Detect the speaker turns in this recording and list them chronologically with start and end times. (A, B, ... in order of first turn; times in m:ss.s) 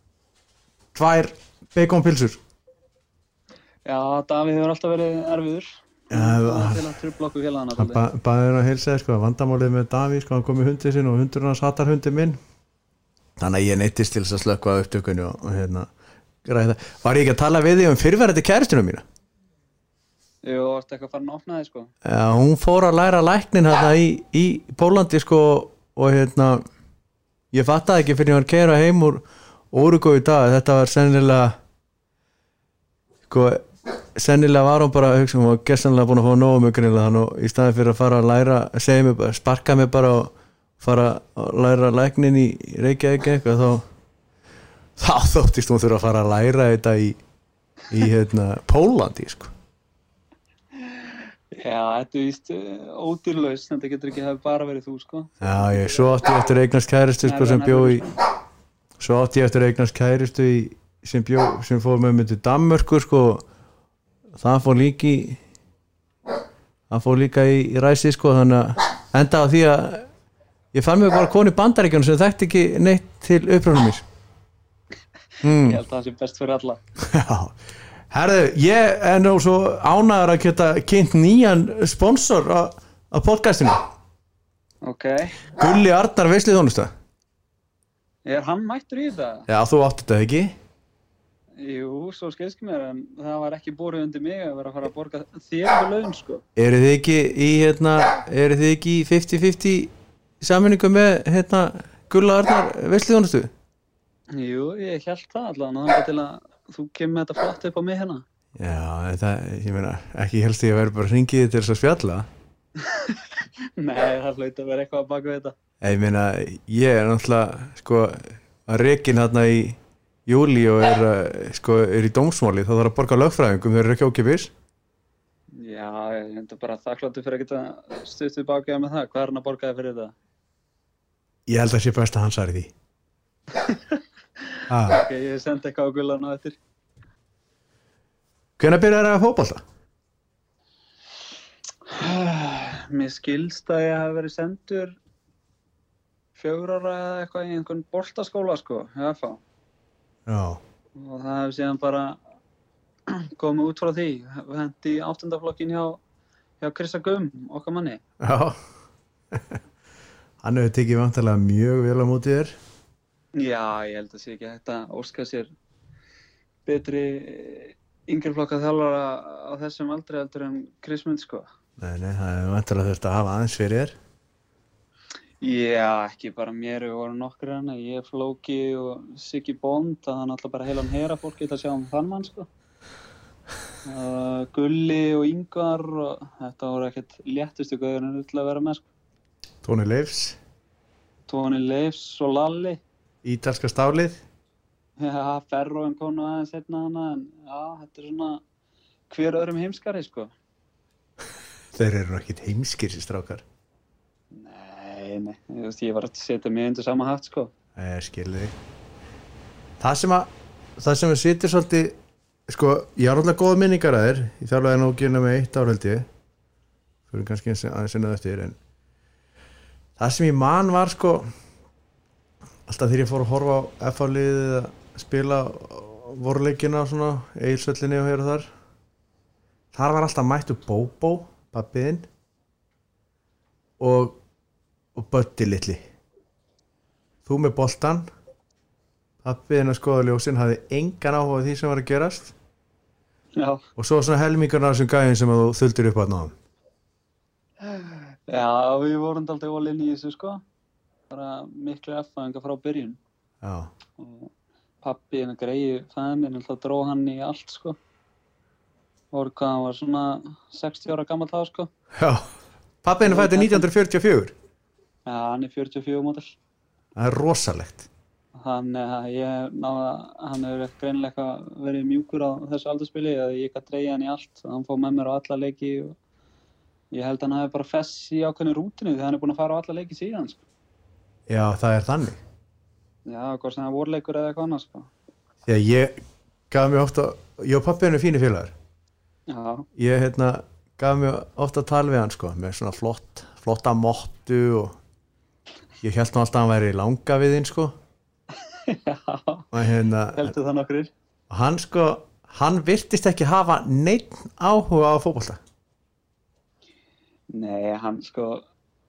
0:00.9-0:02.4 A
0:03.8-0:08.0 B
0:06.1-0:06.8 A
0:07.8-0:12.4 A
0:13.4-0:15.9 A
0:16.4-0:19.0 A
0:20.4-0:21.9 B
0:22.0-0:26.6 A
0:27.5-0:31.6 A
0:33.3-0:43.8 A
0:45.0-0:47.2 A
0:47.9-0:49.5 A
0:50.8-0:56.4 B
0:55.4-0:58.1 A
0:57.2-0:58.1 B
0:59.0-1:03.4 A
1:04.4-1:05.4 A
1:06.9-1:10.1 A
1:10.7-1:14.0 A
1:15.4-1:15.8 A
1:15.6-1:16.8 B
1:17.0-1:17.6 A
1:18.1-1:23.8 A
1:24.8-1:25.4 B
1:25.5-1:26.9 A
1:28.2-1:29.5 B
1:29.5-1:30.5 A
1:31.6-1:36.4 B
1:36.6-1:43.5 A
1:44.3-1:48.2 B
1:48.6-1:52.3 A
1:52.8-1:55.6 B
1:55.8-2:04.5 A
2:05.5-2:10.2 B
2:11.5-2:12.7 A
2:13.6-2:16.6 B
2:14.7-2:15.0 A
2:18.6-2:19.6 A
2:21.9-2:25.0 B
2:26.4-2:29.4 B
2:30.3-2:30.6 A
2:31.0-2:32.2 B
2:33.1-2:36.0 B
2:36.6-2:38.0 B
2:38.2-2:38.6 A
2:40.4-2:42.6 A
2:43.4-2:45.5 B
2:46.6-2:51.5 B
2:51.8-2:54.0 A
2:55.4-3:02.5 B
3:03.8-3:08.8 B
3:09.6-3:10.4 A
3:11.3-3:12.8 B
3:13.2-3:14.2 A
3:15.0-3:18.4 B
3:19.1-3:20.3 B
3:21.8-3:23.4 A
3:24.3-3:27.5 B
3:27.8-3:28.6 A
3:29.8-3:32.0 A
3:32.5-3:36.1 A
3:37.1-3:38.6 A
3:40.0-3:41.3 A
3:42.7-3:48.5 A
3:49.7-3:52.1 A
3:53.8-3:54.2 A
3:55.0-3:55.8 A
3:57.2-3:58.1 A
3:59.2-4:02.3 A
4:03.4-4:03.6 B
4:03.8-4:06.4 A
4:07.6-4:10.4 B
4:11.1-4:13.0 B
4:13.4-4:13.7 A
4:14.0-4:17.8 B
4:19.1-4:21.7 B
4:22.0-4:22.2 A
4:22.8-4:24.3 A
4:23.0-4:23.7 B
4:25.1-4:26.4 B
4:27.0-4:27.9 A
4:28.4-4:36.0 B
4:36.9-4:40.4 B
4:41.3-4:42.2 A
4:43.1-4:44.9 B
4:45.5-4:46.0 A
4:46.5-4:48.5 A
4:49.3-4:49.7 B
4:49.8-4:54.8 A
4:55.8-4:57.7 A
4:58.4-4:59.5 B
4:59.5-5:00.4 A
5:00.2-5:00.9 B
5:01.3-5:05.4 A
5:07.3-5:08.4 B